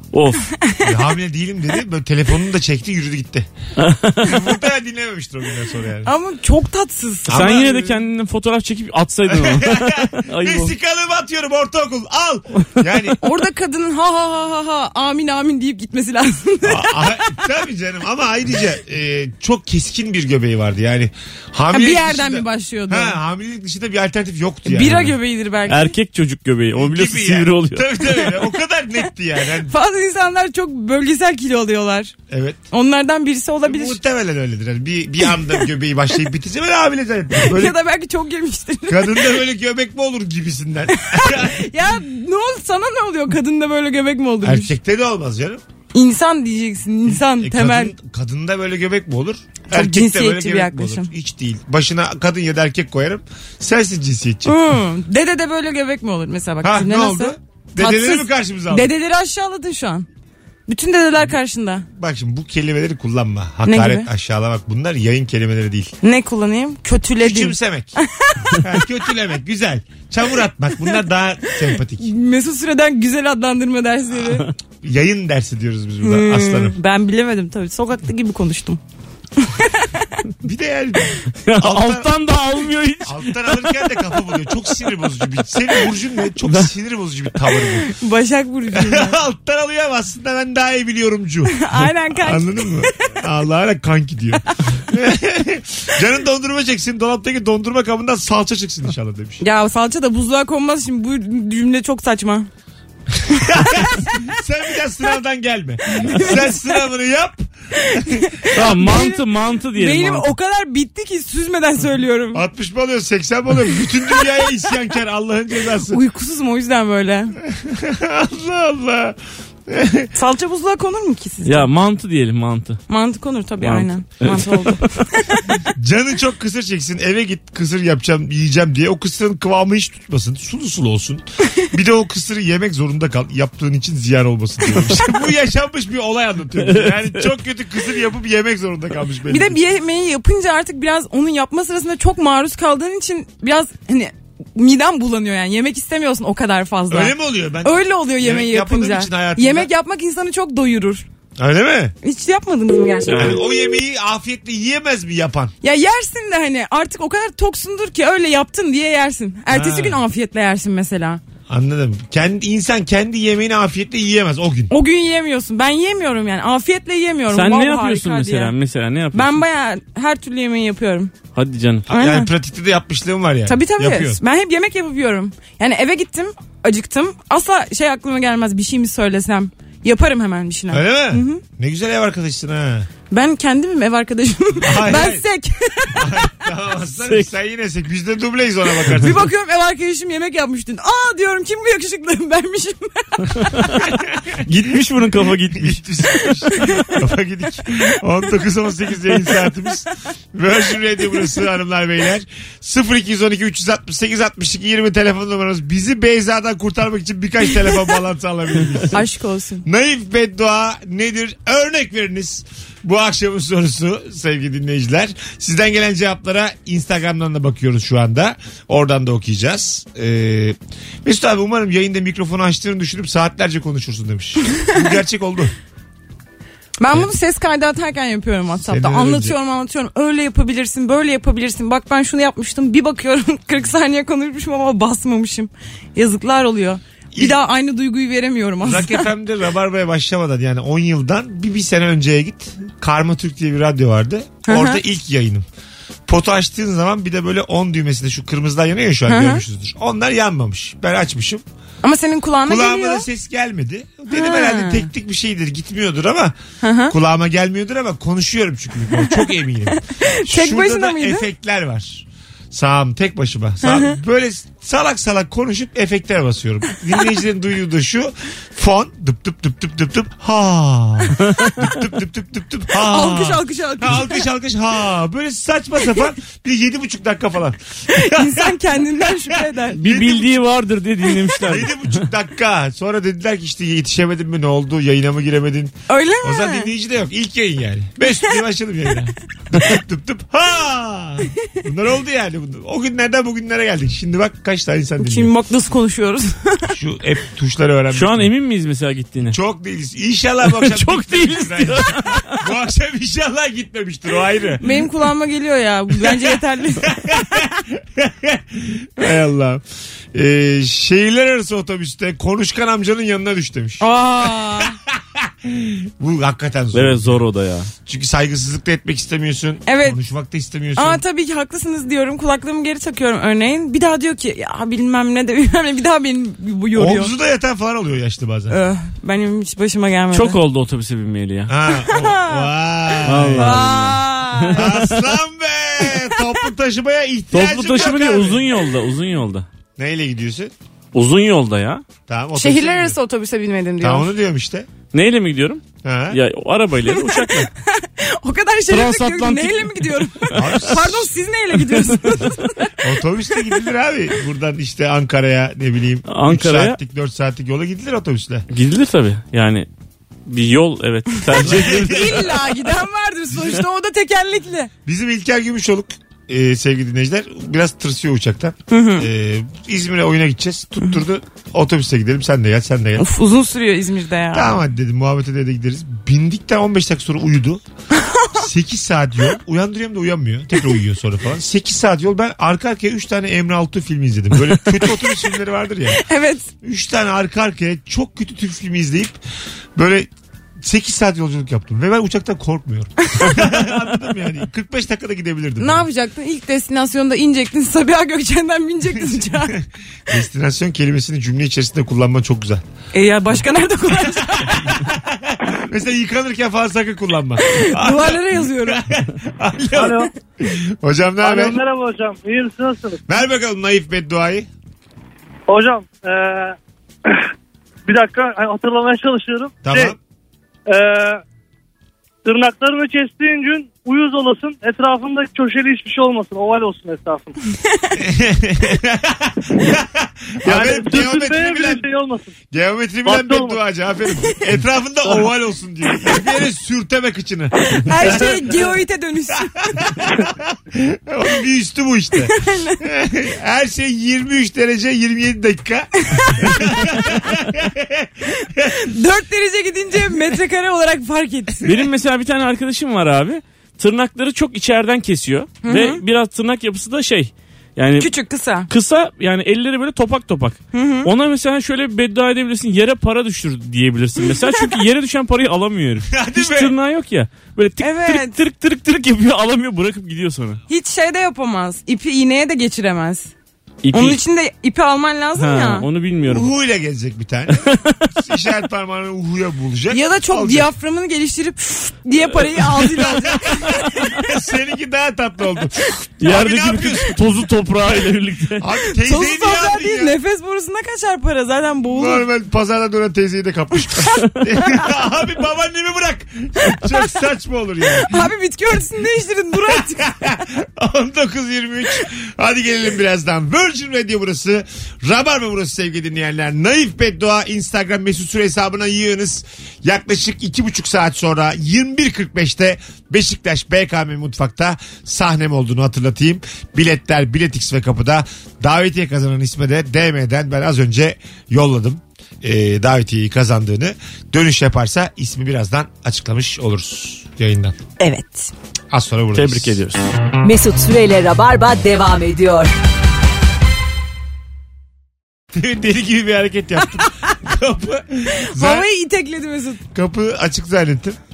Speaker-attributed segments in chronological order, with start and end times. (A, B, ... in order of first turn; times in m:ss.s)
0:00.1-0:00.4 A
0:00.4-0:00.9 B
0:00.8-0:03.5 C
0:03.8-0:04.4 A
0:04.2-0:06.1 C
0:06.0-0:07.6 B
0:07.3-0:08.0 C
0:07.3-0:10.7 A
0:09.3-0:13.2 C
0:13.2-0:17.3 B
0:16.6-0:25.1 C
0:21.7-0:23.2 B
0:24.6-0:25.9 B
0:25.7-0:27.8 A
0:26.8-0:29.7 C
0:29.7-0:32.1 B
0:32.3-0:32.6 C
0:32.7-0:34.0 B
0:33.6-0:37.8 C
0:37.4-0:39.3 B
0:38.9-0:41.7 C
0:40.9-0:44.7 B
0:44.4-0:45.6 C
0:45.9-0:47.9 B
0:47.1-0:54.8 C
0:49.7-0:51.1 B
0:54.4-1:00.1 B
0:56.6-0:58.9 C
1:00.7-1:01.8 B
1:01.9-1:05.9 C
1:03.6-1:04.1 B
1:06.0-1:08.7 B
1:07.2-1:08.0 C
1:08.6-1:12.1 C
1:11.9-1:14.5 B
1:14.8-1:16.8 C
1:16.0-1:18.8 B
1:19.4-1:20.1 B
1:20.4-1:22.1 C
1:21.5-1:23.2 A
1:23.0-1:27.9 C
1:27.7-1:29.2 B
1:28.7-1:39.4 C
1:31.5-1:33.2 B
1:39.4-1:42.5 B
1:43.2-1:48.3 C
1:43.3-1:44.1 B
1:46.1-1:46.5 B
1:47.7-1:49.2 B
1:48.5-1:50.3 A
1:49.8-1:52.4 B
1:52.3-1:56.0 C
1:55.9-1:57.4 B
1:57.4-2:00.1 C
2:00.1-2:01.7 B
2:01.4-2:02.8 A
2:02.9-2:05.6 B
2:03.6-2:05.0 A
2:05.8-2:19.6 C
2:19.3-2:31.0 B
2:26.9-2:29.7 C
2:31.4-2:31.9 C
2:32.0-2:33.4 B
2:33.1-2:35.5 C
2:35.6-2:41.2 B
2:39.5-2:40.0 C
2:41.5-2:44.7 C
2:44.7-2:48.5 B
2:47.3-2:49.4 A
2:49.1-2:51.1 B
2:51.4-2:51.8 A
2:51.9-2:52.3 B
2:51.9-2:54.2 C
2:53.4-3:01.4 B
3:00.7-3:02.9 C
3:03.1-3:06.4 B
3:04.6-3:05.2 C
3:05.9-3:09.2 C
3:08.9-3:13.6 B
3:13.8-3:15.8 A
3:14.0-3:14.4 C
3:15.5-3:29.0 C
3:16.5-3:17.0 B
3:28.9-3:29.6 B
3:29.6-3:45.5 C
3:46.8-3:59.0 B
3:48.7-3:49.4 C
3:57.1-3:57.4 C
3:58.6-4:05.4 C
4:04.4-4:04.8 B
4:06.1-4:11.4 C
4:09.1-4:09.4 B
4:11.8-4:13.0 B
4:12.4-4:16.4 C
4:14.1-4:14.9 B
4:16.6-4:16.9 B
4:16.9-4:40.4 C
4:19.1-4:21.2 B
4:23.6-4:23.9 B
4:31.2-4:31.6 A
4:32.7-4:34.2 B
4:37.9-4:39.8 B
4:39.8-4:42.0 A
4:41.4-4:55.3 C
4:45.9-4:46.7 B
4:55.0-4:56.7 B
4:56.7-4:58.3 C
4:57.9-4:59.4 A
4:59.2-5:04.9 C
5:00.4-5:02.4 A
5:04.6-5:06.9 B
5:06.0-5:09.6 C
5:10.1-5:17.2 C
5:13.8-5:14.8 B
5:16.7-5:17.7 A
5:17.8-5:21.0 C
5:19.6-5:20.0 B
5:20.8-5:27.1 B
5:26.8-5:28.6 C
5:28.5-5:30.4 B
5:30.1-5:31.5 A
5:31.5-5:33.9 C
5:31.7-5:34.9 B
5:33.0-5:34.9 A
5:34.5-5:38.4 C
5:37.3-5:39.4 A
5:39.8-5:40.5 C
5:40.9-5:41.8 A
5:42.1-5:43.0 C
5:42.4-5:44.1 B
5:43.8-5:44.7 C
5:44.9-5:47.5 A
5:45.8-5:46.2 C
5:46.9-5:52.8 B
5:48.7-5:50.6 A
5:50.4-5:51.1 C
5:52.8-5:58.4 C
5:53.3-5:53.6 B
5:56.1-5:56.8 A
5:58.5-5:59.7 A
6:00.3-6:02.3 A
6:01.4-6:04.7 B
6:01.4-6:02.3 C
6:04.9-6:13.1 C
6:08.7-6:09.1 B
6:13.0-6:14.6 B
6:14.3-6:17.6 C
6:17.9-6:18.4 B
6:18.4-6:26.0 C
6:25.9-6:26.5 B
6:26.6-6:29.2 C
6:29.8-6:35.9 C
6:33.0-6:33.6 B
6:35.6-6:39.6 B
6:38.9-6:42.6 C
6:42.9-6:44.8 B
6:44.0-6:51.6 C
6:47.4-6:48.9 B
6:49.7-6:50.1 D
6:51.2-6:53.0 D
6:53.1-6:54.5 C
6:55.5-6:57.2 D
6:57.9-6:59.9 D
6:59.6-7:00.0 C
7:00.7-7:01.2 D
7:02.2-7:07.4 D
7:07.9-7:11.8 C
7:10.4-7:12.3 D
7:12.5-7:18.8 C
7:13.0-7:13.6 D
7:17.8-7:19.6 B
7:19.6-7:28.8 C
7:22.3-7:22.8 B
7:26.1-7:26.8 B
7:28.6-7:31.7 B
7:31.6-7:38.1 A
7:35.6-7:36.0 B
7:38.0-7:38.7 B
7:38.7-7:50.6 A
7:40.7-7:41.1 B
7:44.2-7:44.6 B
7:46.1-7:46.7 C
7:47.8-7:48.4 B
7:50.7-7:53.3 B
7:53.8-7:54.2 A
7:53.9-7:55.9 B
7:55.4-7:56.5 A
7:56.2-8:00.7 C
7:59.9-8:04.0 B
8:02.8-8:07.2 C
8:06.2-8:08.6 A
8:08.6-8:10.1 C
8:09.0-8:12.2 B
8:11.9-8:18.2 C
8:18.1-8:20.1 B
8:19.7-8:47.8 C
8:48.0-8:48.5 B
8:48.9-8:49.8 C
8:49.3-8:50.0 A
8:50.4-8:52.7 E
8:55.5-8:58.9 C
8:58.3-8:59.8 B
8:59.9-9:01.2 C